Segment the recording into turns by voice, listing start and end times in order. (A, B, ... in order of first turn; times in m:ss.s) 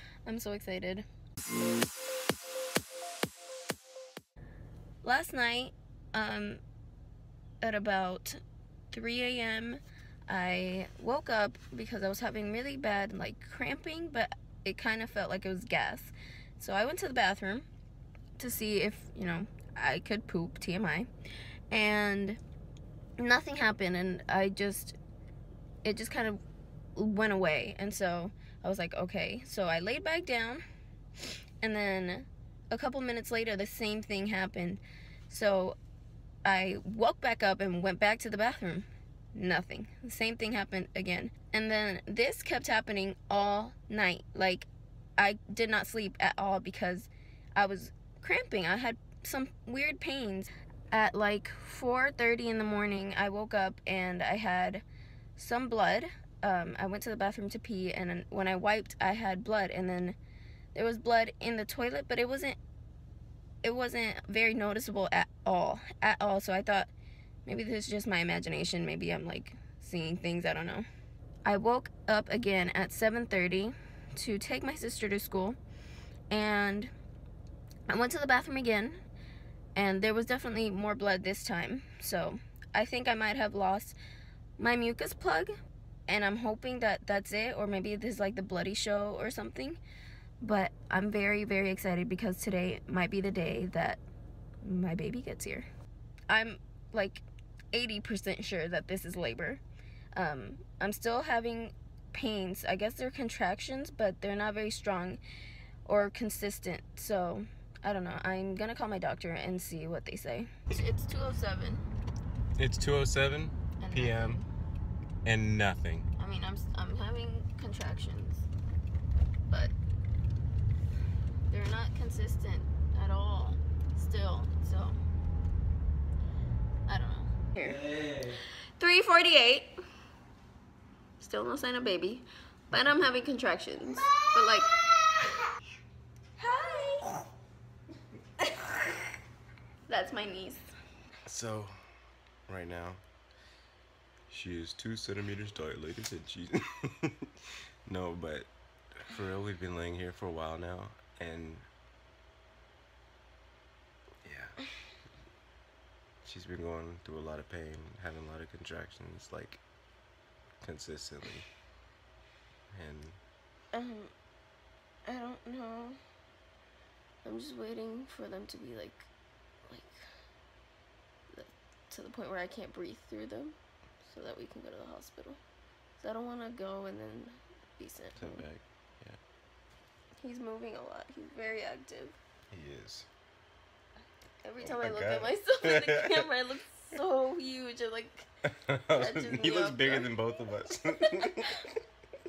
0:00.3-0:01.0 A
0:05.0-0:06.6 A
0:07.6-0:08.4 A
0:08.9-0:17.7 A
0:18.4-0:21.1 A
0:21.7-0:22.4 A
0:23.2-0:25.0 A
0:25.8-0:26.4 A
0:27.0-0:30.6 A
0:31.6-0:35.8 A
0:36.4-0:54.8 A
0:55.4-1:00.2 A
1:00.7-1:02.6 A
1:03.6-1:06.9 A
1:07.5-1:10.9 A
1:11.4-1:15.6 A
1:16.3-1:16.9 A
1:17.9-1:19.0 A
1:19.8-1:24.0 A
1:24.6-1:25.5 A
1:26.1-1:29.8 A
1:30.4-1:34.0 A
1:34.6-1:35.7 A
1:36.3-1:39.6 A
1:40.2-1:45.2 A
1:45.9-1:51.8 A
1:52.6-1:54.4 B
1:53.8-1:54.5 A
1:55.2-1:56.1 B
1:56.2-1:58.5 A
2:01.5-2:05.0 A
2:06.9-2:07.5 A
2:07.6-2:08.4 B
2:08.6-2:09.7 A
2:11.2-2:14.8 A
2:16.4-2:17.2 A
2:18.4-2:18.7 A
2:19.9-2:20.7 A
2:21.2-2:21.8 B
2:22.5-2:23.0 B
2:24.3-2:27.3 B
2:27.9-2:31.7 B
2:34.2-2:34.6 B
2:36.2-2:39.6 B
2:40.6-2:41.5 B
2:42.7-2:43.2 B
2:43.7-2:44.1 A
2:45.1-2:46.0 A
2:47.2-2:49.1 A
2:51.3-2:55.4 A
2:56.0-2:58.4 A
2:58.2-2:59.2 B
3:00.2-3:02.2 A
3:02.5-3:03.1 B
3:04.4-3:08.3 A
3:04.6-3:06.3 B
3:08.6-3:11.7 B
3:08.9-3:10.1 A
3:11.2-3:11.5 A